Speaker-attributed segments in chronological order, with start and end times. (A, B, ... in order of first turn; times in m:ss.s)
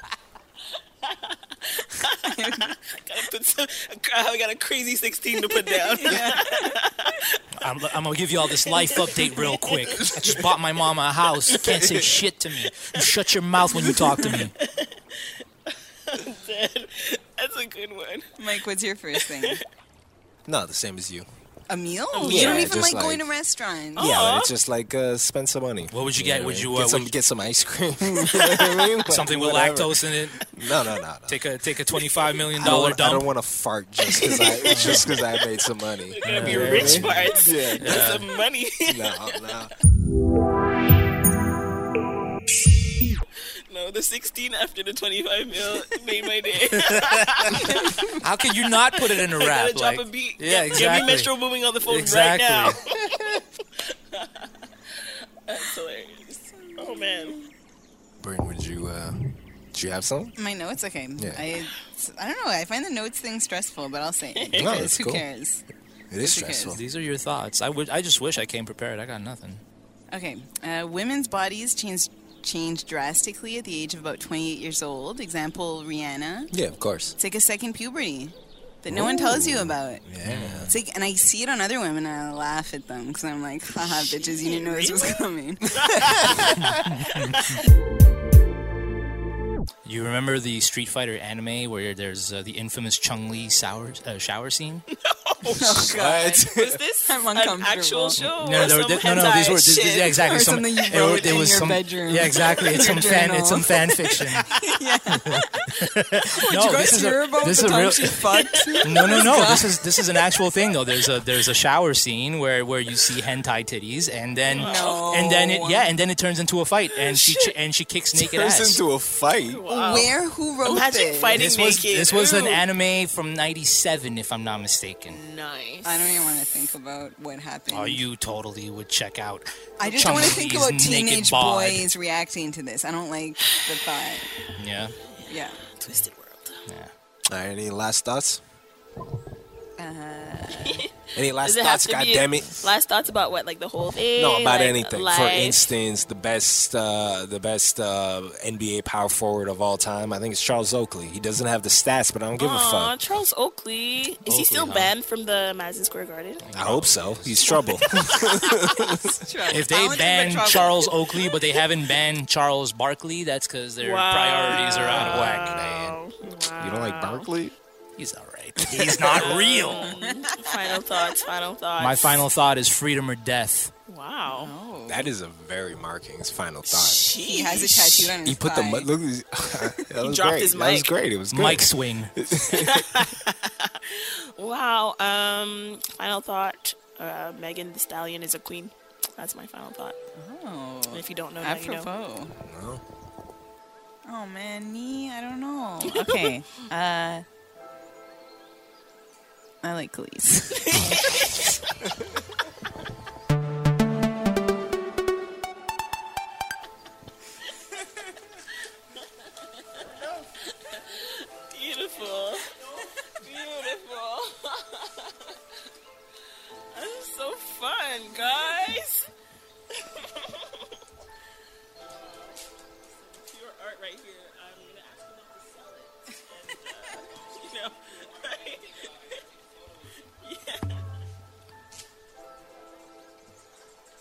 0:01.0-0:07.4 A
0:02.0-0:02.7 B
0:05.3-0:06.8 B
0:07.6-0:14.5 C
0:08.5-0:10.3 A
0:10.0-0:10.3 D
0:11.5-0:11.8 A
0:11.6-0:12.0 D
0:13.8-0:18.4 A
0:14.0-0:14.3 B
0:18.4-0:19.6 B
0:19.2-0:19.6 A
0:20.4-0:21.3 D
0:21.7-0:24.2 B
0:22.1-0:22.7 A
0:22.2-0:23.2 D
0:24.0-0:24.5 A
0:24.0-0:31.4 D
0:25.9-0:27.1 C
0:28.2-0:28.6 A
0:29.0-0:30.5 C
0:31.3-0:33.3 C
0:32.6-0:38.1 D
0:34.1-0:35.2 A
0:34.6-0:35.2 C
0:36.1-0:39.6 A
0:36.2-0:38.2 C
0:38.8-0:39.7 D
0:43.7-0:48.2 A
0:46.7-0:51.3 C
0:47.6-0:48.2 B
0:48.9-0:57.4 A
0:51.9-0:52.8 C
0:56.6-0:57.5 B
0:58.2-1:00.3 D
1:00.4-1:05.6 B
1:01.2-1:01.4 D
1:04.3-1:04.8 A
1:04.5-1:05.2 D
1:06.1-1:06.8 D
1:06.2-1:06.8 B
1:06.7-1:09.6 C
1:10.1-1:16.5 B
1:16.5-1:17.2 D
1:17.2-1:20.0 B
1:18.9-1:20.7 D
1:20.2-1:20.7 C
1:20.7-1:26.8 B
1:24.0-1:27.6 A
1:26.6-1:27.5 C
1:29.8-1:34.8 C
1:34.9-1:40.2 A
1:35.5-1:36.5 B
1:35.9-1:36.8 D
1:37.0-1:38.2 B
1:38.2-1:44.5 C
1:40.2-1:45.7 B
1:42.4-1:42.8 A
1:45.2-1:48.2 C
1:46.4-1:49.8 B
1:48.3-1:49.5 A
1:48.8-1:58.8 C
1:54.5-1:55.1 A
1:54.5-1:55.9 B
1:57.0-1:57.5 A
1:58.1-1:59.6 D
1:59.4-2:02.6 A
1:59.7-2:01.5 B
2:01.4-2:05.2 C
2:05.1-2:06.0 A
2:05.8-2:08.0 B
2:07.7-2:11.9 C
2:09.8-2:14.3 B
2:14.6-2:15.0 C
2:15.1-2:16.6 A
2:15.3-2:15.6 B
2:17.3-2:18.4 D
2:19.8-2:20.8 B
2:20.5-2:20.9 A
2:21.1-2:22.7 D
2:21.4-2:25.7 A
2:24.2-2:33.0 D
2:32.4-2:36.4 A
2:34.2-2:34.9 C
2:36.4-2:37.8 C
2:36.5-2:39.1 D
2:37.6-2:38.6 A
2:38.4-2:40.9 B
2:39.5-2:45.6 C
2:43.8-2:47.3 A
2:44.7-2:46.0 D
2:46.6-2:47.6 D
2:48.0-2:49.9 C
2:49.1-2:52.2 A
2:49.8-2:50.6 B
2:51.8-2:53.7 C
2:53.9-2:54.5 A
2:54.2-2:55.1 B
2:54.9-2:57.0 D
2:56.6-2:58.2 A
2:57.1-2:58.9 B
2:58.2-3:03.1 D
3:00.0-3:00.9 A
3:01.3-3:02.1 C
3:02.5-3:10.0 A
3:10.2-3:12.3 B
3:10.9-3:11.9 A
3:12.4-3:12.8 D
3:14.0-3:17.2 B
3:15.9-3:16.3 A
3:19.6-3:21.2 B
3:20.5-3:21.5 A
3:29.7-3:35.4 A
3:36.7-3:39.1 A
3:39.7-3:40.7 A
3:42.0-3:49.2 A
3:50.0-3:50.9 A